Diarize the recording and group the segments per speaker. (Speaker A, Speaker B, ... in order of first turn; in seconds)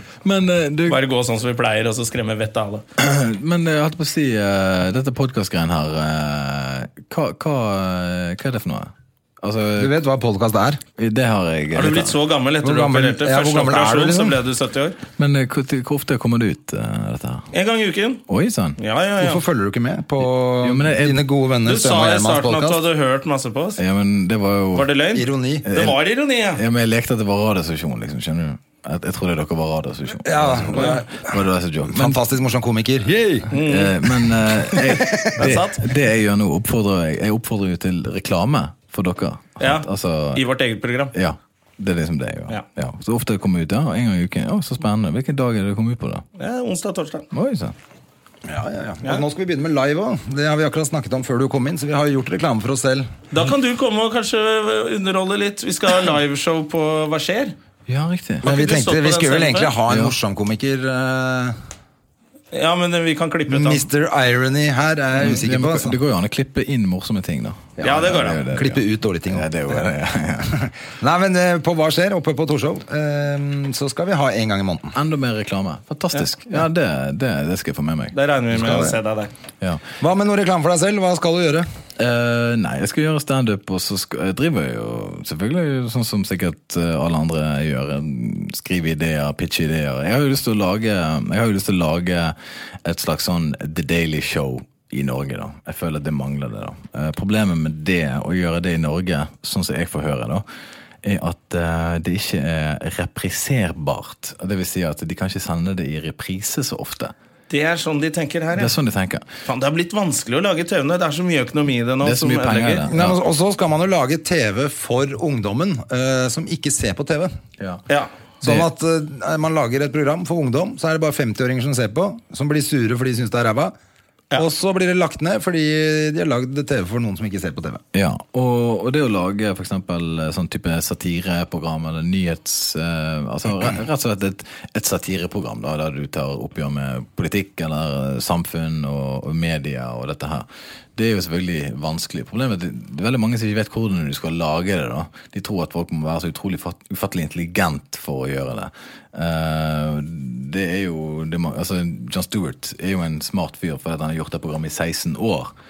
Speaker A: 0.2-1.0, 3.0-9.9, 11.0-12.2, 15.2-17.5, 18.3-18.8, 20.6-21.2, 23.8-24.9, 25.6-26.0, 26.5-32.2, 33.6-40.4, 41.1-46.2, 47.3-47.7, 57.9-58.5, 59.9-60.1, 65.2-70.7, 74.9-78.1, 82.0-100.4, 101.0-107.1, 108.5-109.2, 112.0-113.2, 118.4-118.7, 127.9-155.5
Speaker B: 0.9-2.8, 11.7-15.0, 17.5-18.2, 18.8-19.4, 21.6-23.8, 24.7-26.6, 33.5-34.0, 35.4-35.8, 39.6-41.1, 46.4-47.2, 53.3-57.5, 58.4-59.7, 62.5-63.9, 67.8-68.4, 78.1-79.3, 107.5-108.7, 109.5-112.8
Speaker C: 9.8-10.8, 12.6-14.4, 19.2-22.8, 25.1-25.7, 30.2-33.5, 34.9-35.3, 48.4-53.1, 58.4-61.5, 63.5-66.0, 67.8-69.9, 71.0-74.9, 78.5-79.0, 80.0-81.7, 112.9-117.3, 118.4-123.7, 124.3-127.8